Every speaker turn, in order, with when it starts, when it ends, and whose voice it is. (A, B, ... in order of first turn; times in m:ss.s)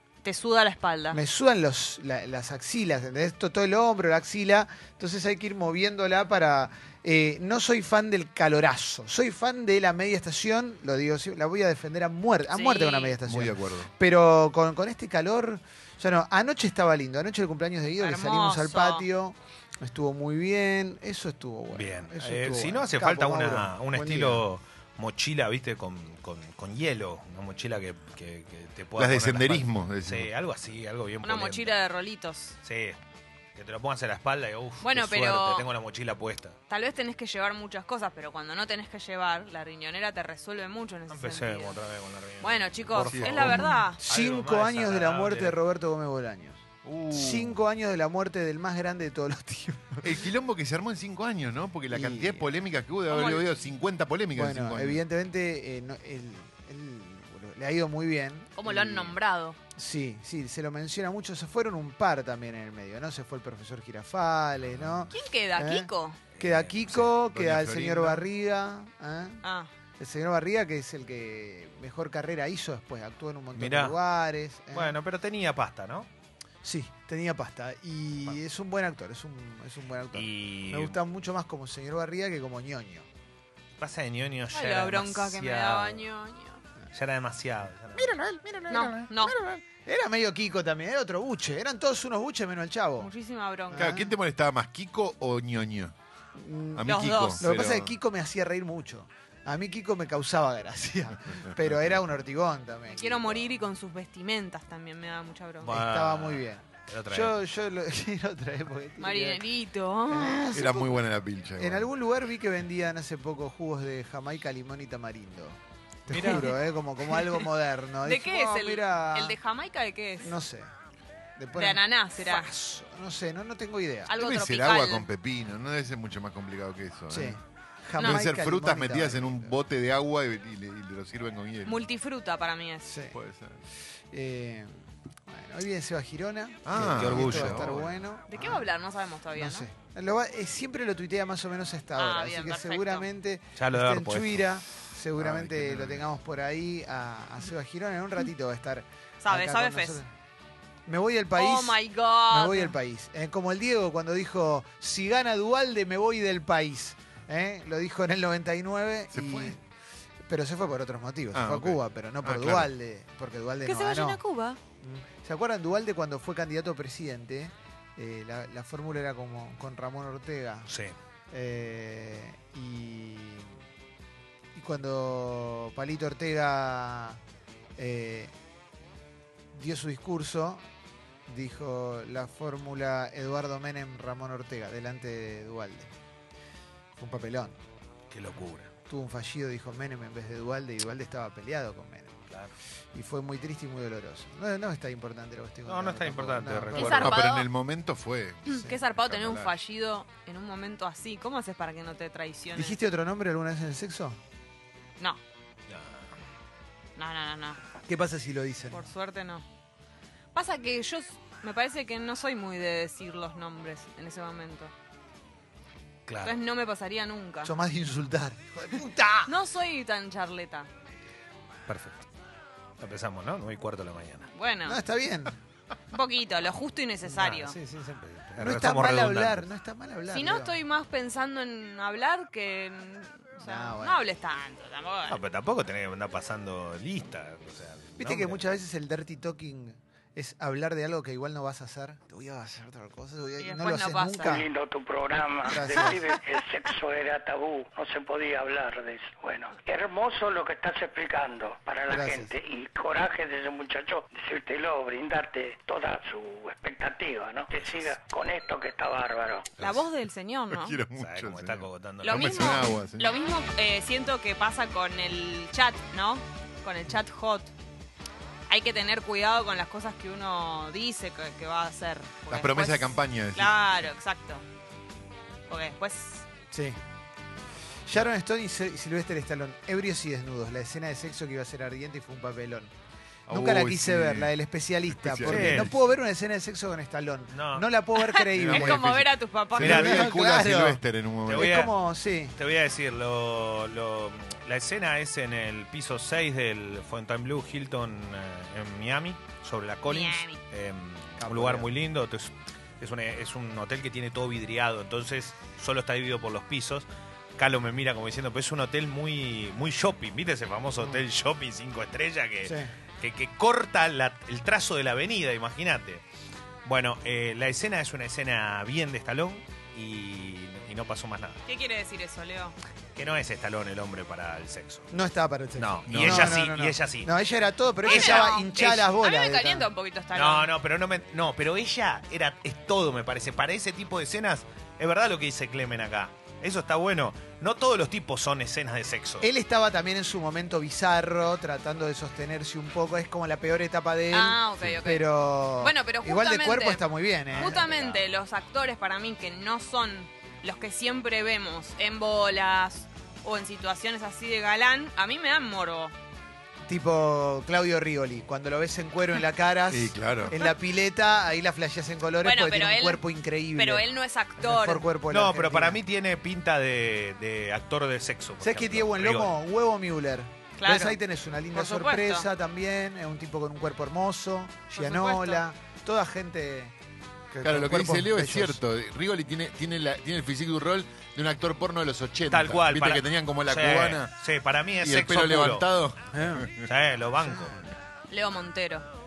0:00.2-0:01.2 A
0:01.1-0:24.4 B
0:12.4-0:13.2 A
0:13.2-0:13.9 C
0:18.0-0:19.0 A
0:21.7-0:31.7 D
0:29.0-0:30.3 C
0:31.2-0:32.6 A
0:32.6-0:33.0 D
0:33.5-0:36.6 D
0:34.8-0:35.7 A
0:36.7-0:41.8 A
0:41.1-0:45.6 D
0:42.4-0:44.0 A
0:43.0-0:43.8 C
0:43.6-0:50.1 B
0:46.8-0:47.6 C
0:50.0-0:55.0 C
0:51.9-0:52.4 B
0:53.1-0:53.5 A
0:54.3-0:59.1 B
0:58.5-0:59.6 A
0:59.7-1:09.4 B
1:04.7-1:05.1 C
1:05.1-1:06.2 A
1:06.4-1:06.7 D
1:06.9-1:08.3 C
1:09.4-1:09.7 A
1:10.0-1:15.0 B
1:13.5-1:14.0 D
1:14.7-1:16.1 D
1:16.6-1:23.1 B
1:20.1-1:21.0 D
1:23.8-1:26.0 D
1:24.5-1:26.6 A
1:26.9-1:28.1 D
1:27.9-1:33.1 B
1:28.7-1:29.4 A
1:33.0-1:33.9 A
1:33.7-1:34.1 B
1:33.7-1:35.9 C
1:36.3-1:43.5 B
1:36.7-1:37.9 C
1:36.8-1:37.4 A
1:42.9-1:45.7 A
1:45.6-1:47.3 D
1:45.7-1:49.4 B
1:49.0-1:50.5 A
1:50.1-1:51.0 B
1:50.5-1:51.9 C
1:51.6-1:59.4 B
1:56.1-1:56.6 D
1:56.1-1:56.6 A
1:57.1-1:57.4 A
1:58.0-2:00.4 A
2:00.2-2:00.7 B
2:01.4-2:04.1 B
2:01.5-2:02.5 A
2:04.1-2:05.0 A
2:04.1-2:07.4 C
2:07.1-2:09.5 B
2:08.0-2:08.2 A
2:08.0-2:11.8 C
2:11.6-2:12.9 A
2:12.8-2:13.2 B
2:13.1-2:13.6 C
2:14.1-2:18.7 B
2:16.6-2:18.0 C
2:16.7-2:17.8 D
2:18.3-2:19.7 A
2:19.4-2:30.1 B
2:22.0-2:23.1 A
2:23.6-2:24.4 D
2:25.2-2:26.1 C
2:29.2-2:30.0 A
2:30.8-2:39.6 B
2:31.4-2:32.8 A
2:39.1-2:39.6 C
2:40.3-2:44.2 B
2:41.3-2:42.7 C
2:43.6-2:44.6 A
2:44.8-2:50.7 B
2:50.7-2:50.9 D
2:51.3-2:53.5 B
2:54.5-2:57.2 B
2:57.8-2:58.3 B
2:59.5-3:00.6 B
3:01.2-3:05.9 B
3:07.0-3:07.6 B
3:08.1-3:08.7 D
3:08.9-3:12.2 B
3:12.9-3:17.1 B
3:15.6-3:17.2 D
3:16.7-3:17.5 A
3:17.0-3:19.5 C
3:18.4-3:22.8 A
3:22.5-3:24.2 B
3:25.7-3:26.0 D
3:27.0-3:27.6 A
3:27.9-3:28.8 B
3:28.7-3:29.4 A
3:30.3-3:34.7 A
3:36.0-3:36.4 D
3:36.2-3:37.5 A
3:37.4-3:39.3 B
3:39.2-3:40.7 A
3:41.7-3:42.0 D
3:42.8-3:44.3 D
3:44.3-3:44.8 A
3:44.6-3:45.4 B
3:45.9-3:47.6 A
3:47.0-3:47.5 B
3:47.5-3:49.4 D
3:48.4-3:50.6 B
3:50.1-3:55.2 A
3:53.4-3:54.0 B
3:55.1-3:58.4 D
3:58.0-4:04.5 B
4:03.4-4:04.4 A
4:04.2-4:19.5 E
4:05.5-4:06.0 B
4:11.9-4:12.3 B
4:19.6-4:20.8 A
4:20.5-4:23.2 C
4:21.0-4:22.6 D
4:22.0-4:27.5 A
4:28.5-4:34.4 A
4:32.3-4:33.6 C
4:35.5-4:36.2 A
4:36.5-4:36.8 B
4:37.8-4:42.7 B
4:43.3-4:44.3 C
4:43.3-4:49.0 B
4:44.9-4:45.7 C
4:45.2-4:45.8 D
4:47.3-4:47.7 D
4:48.0-4:50.0 A
4:48.3-4:48.9 D
4:49.6-4:51.7 C
4:49.6-4:52.3 B
4:49.6-4:50.1 D
4:51.2-4:51.7 D
4:52.4-5:16.0 D
4:59.8-5:00.4 A
5:01.2-5:01.7 B
5:12.4-5:12.7 B
5:16.6-5:21.4 D
5:21.4-5:22.6 A
5:23.0-5:24.9 D
5:24.9-5:29.7 B
5:25.6-5:27.1 D
5:25.9-5:26.4 C
5:27.8-5:28.4 D
5:27.8-5:30.5 A
5:30.1-5:39.3 D
5:39.2-5:48.0 B
5:44.1-5:45.1 A
5:45.6-5:55.9 A
5:47.4-5:47.8 D
5:56.7-6:03.9 B
5:59.7-6:00.4 C
6:02.2-6:04.8 A
6:04.4-6:05.8 B
6:05.1-6:09.3 D
6:08.4-6:16.7 B
6:10.6-6:11.0 A
6:11.5-6:12.3 A
6:14.7-6:15.4 A
6:17.3-6:18.6 B
6:17.4-6:24.1 C
6:22.3-6:25.6 D
6:24.8-6:26.7 C
6:26.1-6:26.5 B
6:26.6-6:27.6 D
6:27.2-6:27.7 B
6:28.1-6:28.8 A